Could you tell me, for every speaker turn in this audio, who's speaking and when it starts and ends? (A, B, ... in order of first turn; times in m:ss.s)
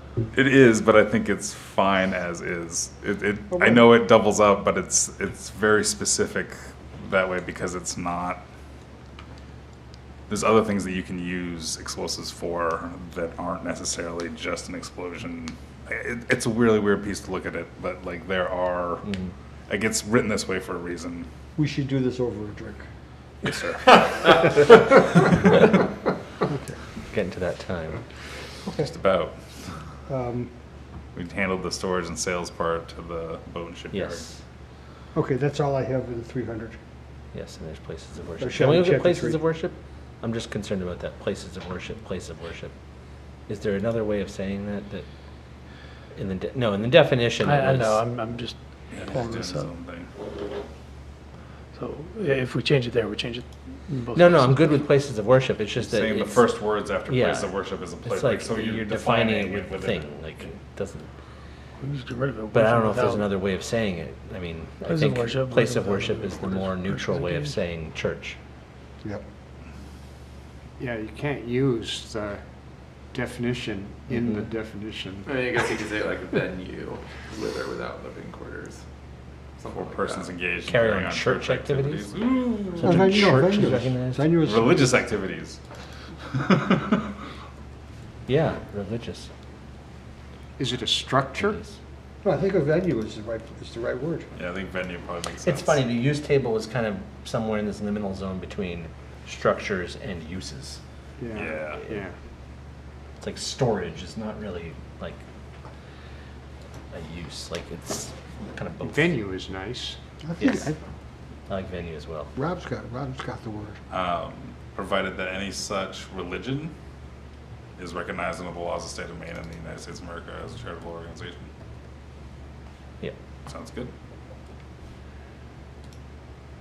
0:00.3-0:08.4 A
0:03.6-0:03.8 B
0:10.3-0:19.1 A
0:19.0-0:19.3 C
0:19.7-0:21.3 A
0:21.6-0:22.8 B
0:23.5-0:24.4 A
0:25.5-0:25.8 C
0:26.5-0:26.8 B
0:27.1-0:28.0 C
0:28.6-0:28.9 B
0:28.8-0:29.7 A
0:30.1-0:30.5 B
0:31.2-0:34.3 A
0:33.9-0:34.4 C
0:35.1-0:36.8 B
0:37.3-0:42.7 C
0:38.4-0:39.4 B
0:43.5-0:45.1 C
0:46.2-0:48.1 C
0:47.4-0:48.6 D
0:48.9-0:50.1 A
0:49.2-0:49.6 D
0:51.8-0:54.8 D
0:54.1-0:56.6 C
0:55.8-1:00.1 A
0:57.1-1:01.1 C
1:01.8-1:03.2 D
1:02.5-1:08.4 C
1:04.9-1:07.1 D
1:10.8-1:12.4 E
1:13.1-1:15.3 E
1:14.1-1:14.4 C
1:15.2-1:18.8 F
1:19.6-1:20.4 F
1:19.7-1:23.3 A
1:20.6-1:22.1 C
1:22.8-1:24.4 C
1:22.8-1:24.9 B
1:24.4-1:25.6 A
1:26.3-1:27.1 A
1:28.3-1:29.3 C
1:30.6-1:31.6 E
1:31.4-1:31.7 C
1:32.2-1:34.3 B
1:34.4-1:35.8 A
1:35.4-1:40.8 C
1:41.2-1:42.1 E
1:41.3-1:41.8 A
1:43.2-1:45.2 C
1:46.9-1:49.1 C
1:48.8-1:50.0 E
1:50.2-1:50.8 B
1:50.4-1:50.7 C
1:51.5-1:52.3 C
1:52.3-1:53.8 B
1:53.9-1:56.7 A
1:57.8-2:01.5 A
2:03.5-2:03.9 A